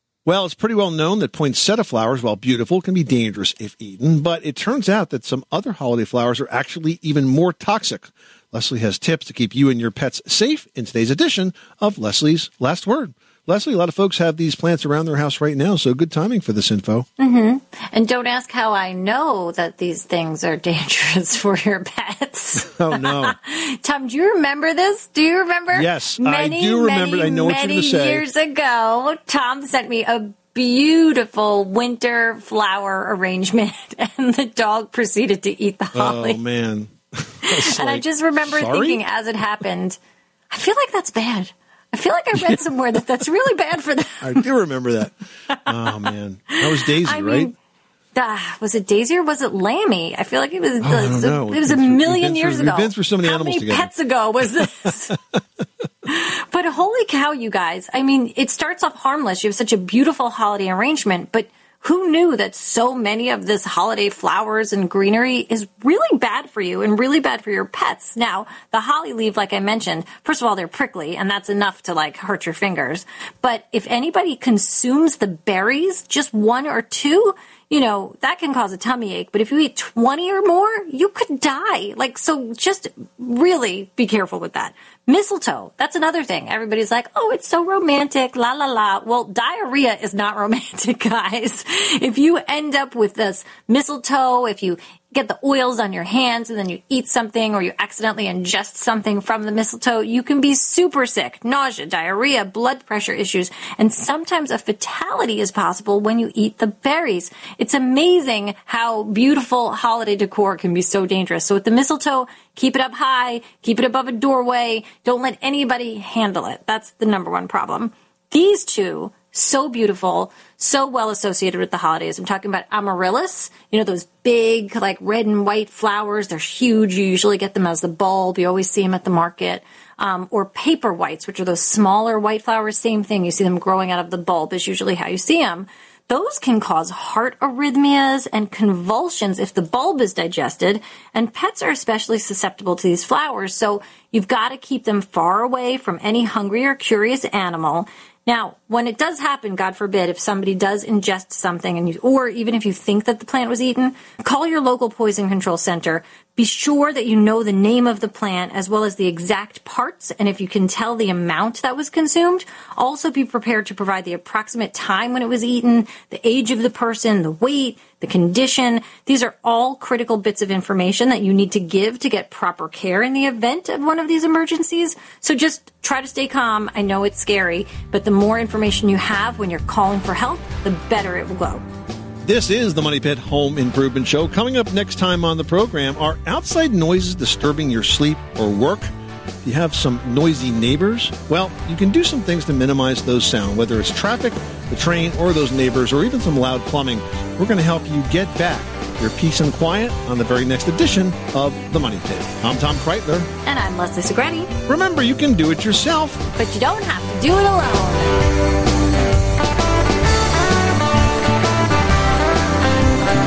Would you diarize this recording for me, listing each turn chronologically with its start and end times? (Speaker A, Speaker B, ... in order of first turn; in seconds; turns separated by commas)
Speaker A: 0.2-17.1, Speaker B: 17.2-36.4, Speaker A: 22.6-23.4, Speaker A: 25.7-28.2, Speaker A: 35.9-39.0, Speaker B: 37.4-40.0, Speaker B: 40.5-44.4, Speaker A: 42.4-42.6, Speaker A: 44.2-47.5, Speaker B: 46.9-47.5, Speaker B: 48.1-55.1, Speaker A: 50.8-53.9, Speaker A: 54.6-55.1, Speaker B: 56.0-181.6, Speaker A: 182.2-188.9, Speaker A: 189.4-203.3, Speaker B: 203.4-204.5, Speaker A: 204.7-206.2, Speaker B: 206.4-208.1